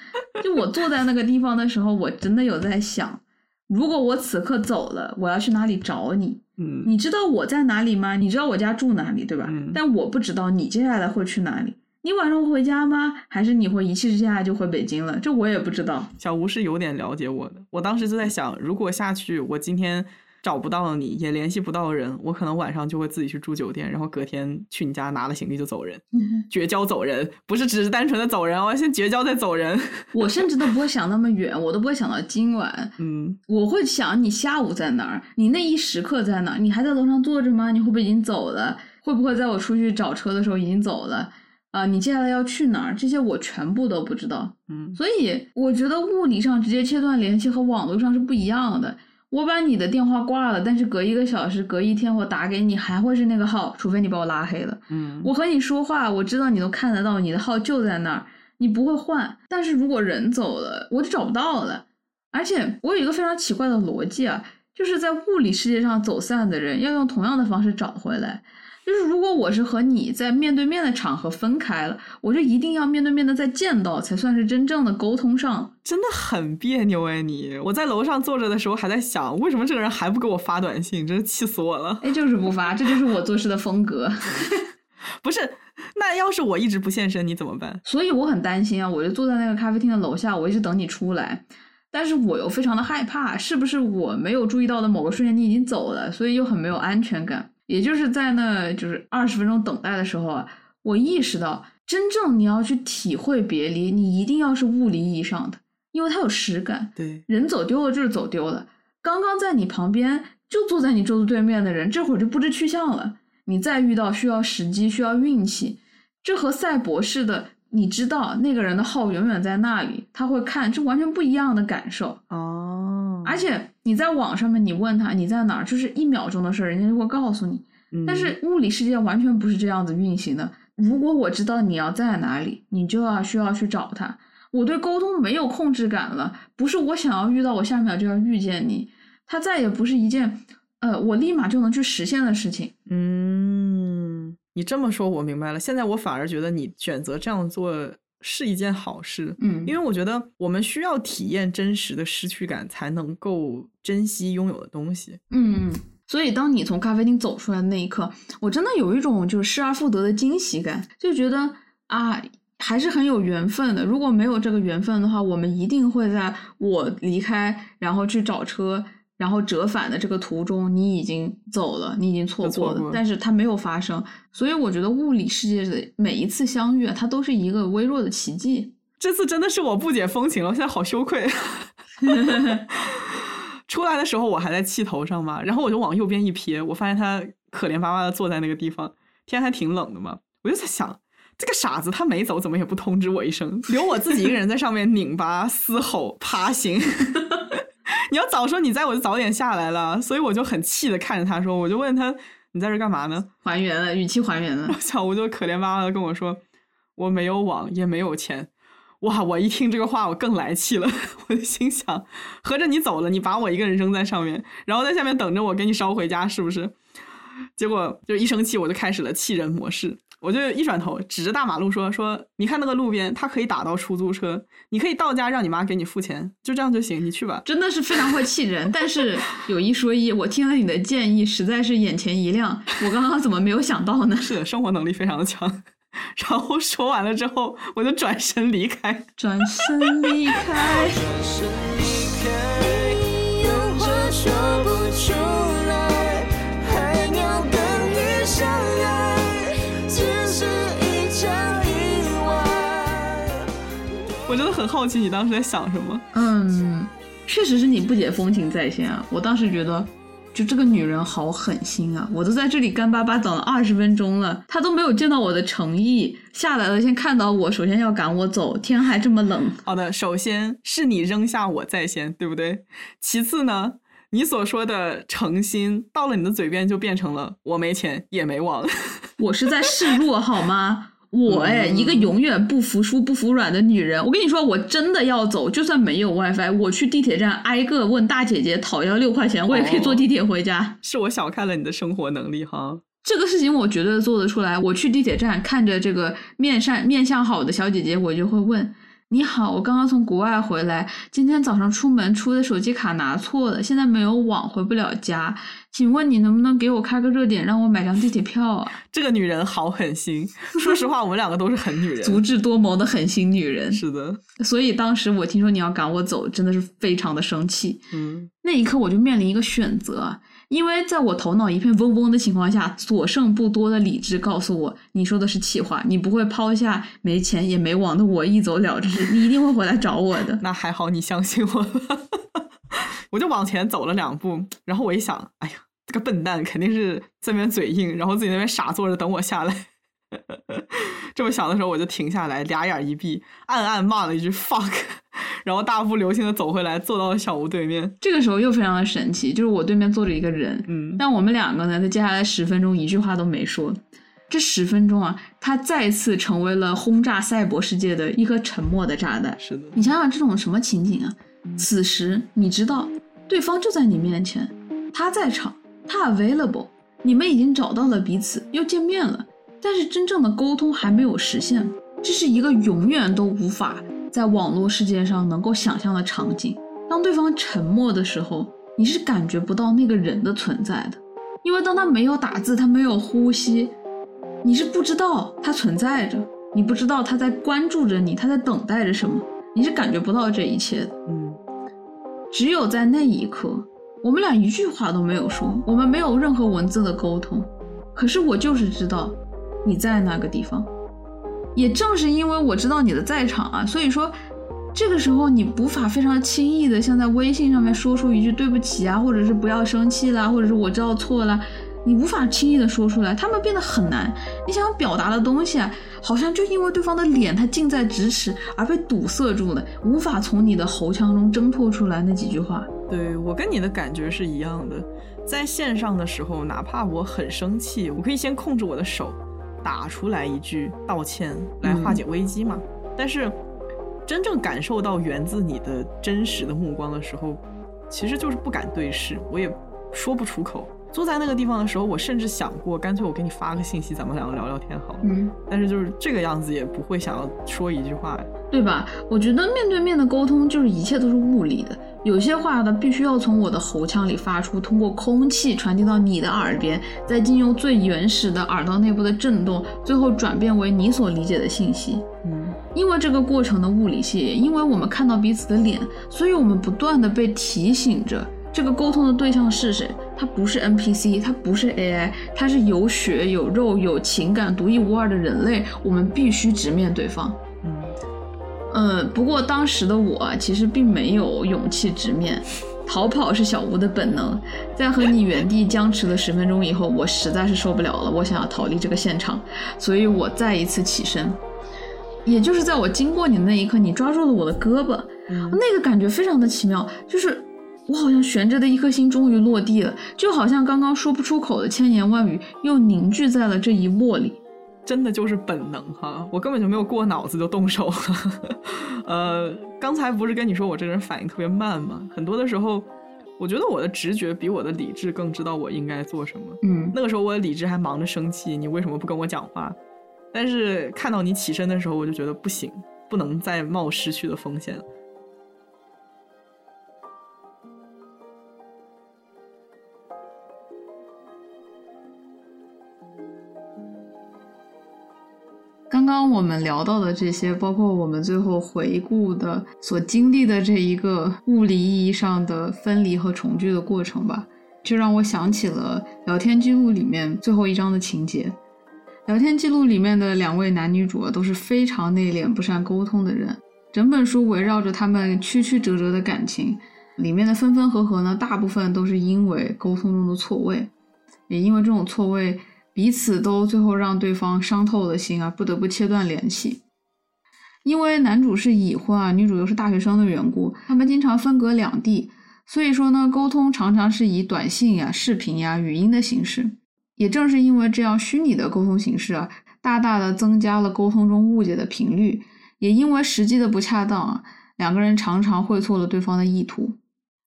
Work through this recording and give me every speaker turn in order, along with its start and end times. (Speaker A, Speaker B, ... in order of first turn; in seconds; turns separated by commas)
Speaker A: 0.4-16.1, Speaker B: 6.6-6.9, Speaker B: 9.4-9.8, Speaker B: 16.2-30.5, Speaker A: 30.1-32.9, Speaker B: 33.0-33.4, Speaker A: 33.5-75.7, Speaker B: 44.7-45.0, Speaker B: 54.9-55.3, Speaker B: 75.8-82.2, Speaker A: 82.0-84.7, Speaker B: 85.2-87.8, Speaker A: 87.8-122.2, Speaker B: 107.0-107.2, Speaker B: 122.3-123.4, Speaker A: 123.2-142.7, Speaker B: 127.9-128.3, Speaker B: 142.9-155.2, Speaker A: 149.4-149.7, Speaker A: 155.3-178.7, Speaker B: 172.4-173.0, Speaker B: 179.0-203.3, Speaker A: 182.1-182.6, Speaker A: 203.4-204.8, Speaker B: 204.7-206.4, Speaker B: 207.0-208.5, Speaker B: 209.0-216.8, Speaker B: 217.6-227.4, Speaker A: 227.4-234.3, Speaker B: 234.2-240.1, Speaker A: 239.2-241.1, Speaker C: 241.0-253.4, Speaker B: 254.3-256.0, Speaker A: 256.1-269.6, Speaker B: 269.6-279.1, Speaker A: 279.2-290.8, Speaker B: 281.3-282.1, Speaker B: 289.5-290.1, Speaker B: 290.8-292.8, Speaker A: 293.0-308.8, Speaker B: 308.9-312.2, Speaker A: 312.0-313.8, Speaker B: 313.7-314.2, Speaker A: 314.4-317.8, Speaker B: 317.9-318.3, Speaker A: 318.4-330.4, Speaker B: 330.4-347.9, Speaker A: 348.0-383.7, Speaker B: 350.7-351.0, Speaker B: 359.4-359.8, Speaker A: 384.4-390.9, Speaker B: 391.1-391.4, Speaker A: 392.3-400.7, Speaker A: 401.6-404.1, Speaker A: 404.7-422.7, Speaker B: 422.9-433.4, Speaker A: 431.6-432.0, Speaker B: 434.1-448.3, Speaker A: 445.0-445.4, Speaker A: 448.5-462.1, Speaker B: 462.2-462.6, Speaker A: 462.7-477.4, Speaker B: 477.6-477.9, Speaker A: 478.7-491.4, Speaker A: 492.2-504.4, Speaker B: 495.3-495.6, Speaker B: 504.9-519.8, Speaker A: 516.6-517.0, Speaker B: 520.3-524.9, Speaker A: 535.9-548.5, Speaker A: 549.3-560.9, Speaker A: 561.5-566.8, Speaker A: 567.9-587.0